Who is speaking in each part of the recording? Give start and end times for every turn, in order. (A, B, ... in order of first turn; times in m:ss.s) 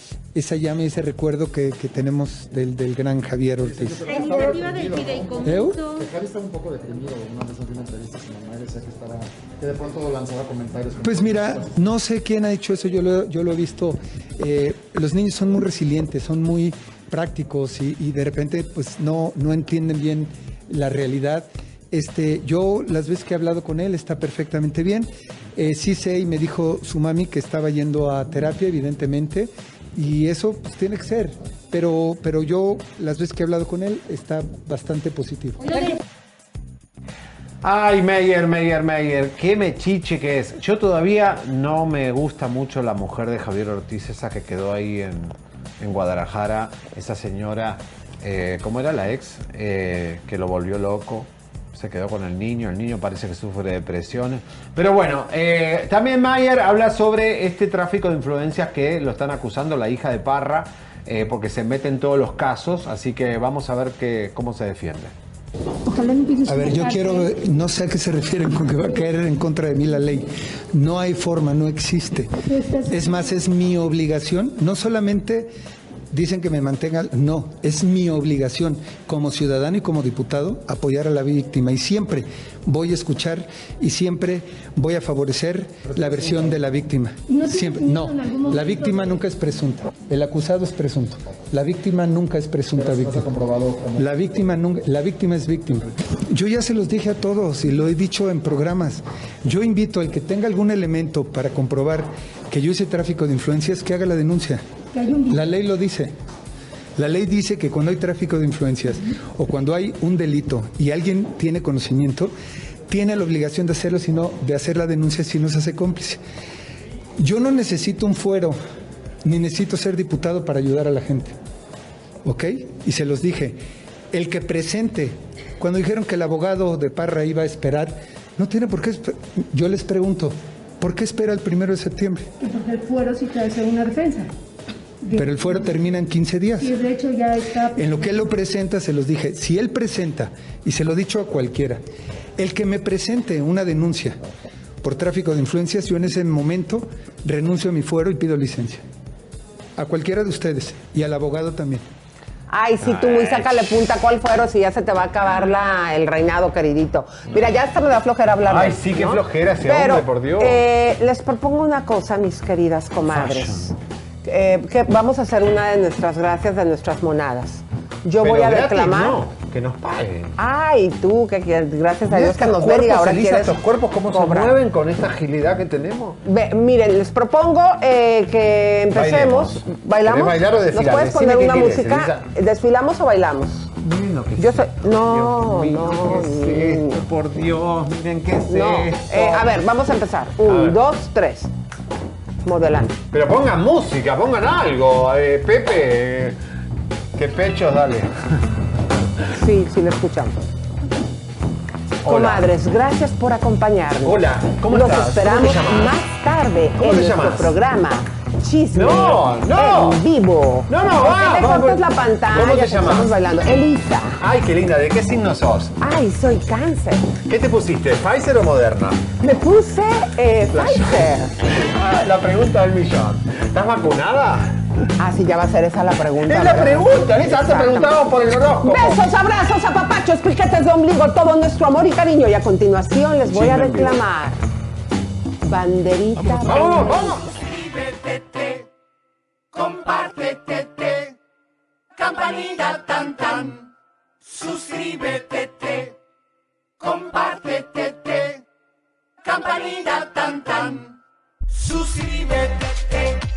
0:00.4-0:04.1 A
0:03.6-0:11.9 B
0:04.0-0:06.1 C
0:05.5-0:05.8 A
0:11.0-0:35.8 A
0:35.6-0:36.0 C
0:37.6-1:05.2 D
1:05.9-1:07.3 C
1:06.5-1:12.3 A
1:12.5-1:13.2 C
1:12.9-1:15.5 A
1:16.1-1:33.3 A
1:25.8-1:26.6 B
1:27.3-1:29.2 C
1:32.7-1:34.2 B
1:34.0-1:44.6 A
1:44.9-1:45.4 C
1:45.3-1:46.2 A
1:47.0-1:52.3 A
1:52.9-1:56.2 A
1:57.2-1:58.6 A
1:59.2-2:01.4 A
2:02.2-2:03.6 A
2:04.1-2:12.3 A
2:12.4-2:14.3 C
2:15.1-2:15.6 C
2:15.1-2:16.8 A
2:16.6-2:17.9 C
2:17.7-2:21.8 A
2:22.4-2:24.2 A
2:24.8-2:28.8 A
2:29.8-2:31.9 A
2:32.5-2:49.2 E
2:32.8-2:33.7 D
2:38.5-2:40.6 D
2:43.0-2:43.7 D
2:48.2-2:50.4 D
2:50.4-2:53.6 E
2:52.1-2:56.2 D
2:54.1-2:54.6 E
2:56.2-3:03.7 E
2:58.9-3:02.3 D
3:03.8-3:09.6 D
3:04.4-3:07.0 E
3:08.5-3:11.5 E
3:10.4-3:10.8 D
3:12.4-3:13.0 E
3:13.1-3:16.4 D
3:17.1-3:18.1 D
3:19.3-3:20.4 E
3:22.0-3:22.5 D
3:22.1-3:34.2 E
3:24.0-3:26.0 D
3:26.8-3:27.6 D
3:28.7-3:30.0 D
3:30.7-3:33.2 D
3:34.2-3:35.8 D
3:35.8-3:37.1 E
3:37.3-3:39.1 D
3:39.2-3:41.3 E
3:40.5-3:44.6 D
3:45.0-3:48.0 E
3:46.2-3:49.0 D
3:48.6-3:54.4 E
3:53.3-3:54.0 D
3:55.5-3:57.1 E
3:56.3-3:57.4 D
4:02.1-4:02.8 C
4:02.8-4:03.4 D
4:04.4-4:05.8 C
4:06.9-4:08.1 C
4:09.3-4:10.2 C
4:11.7-4:12.5 C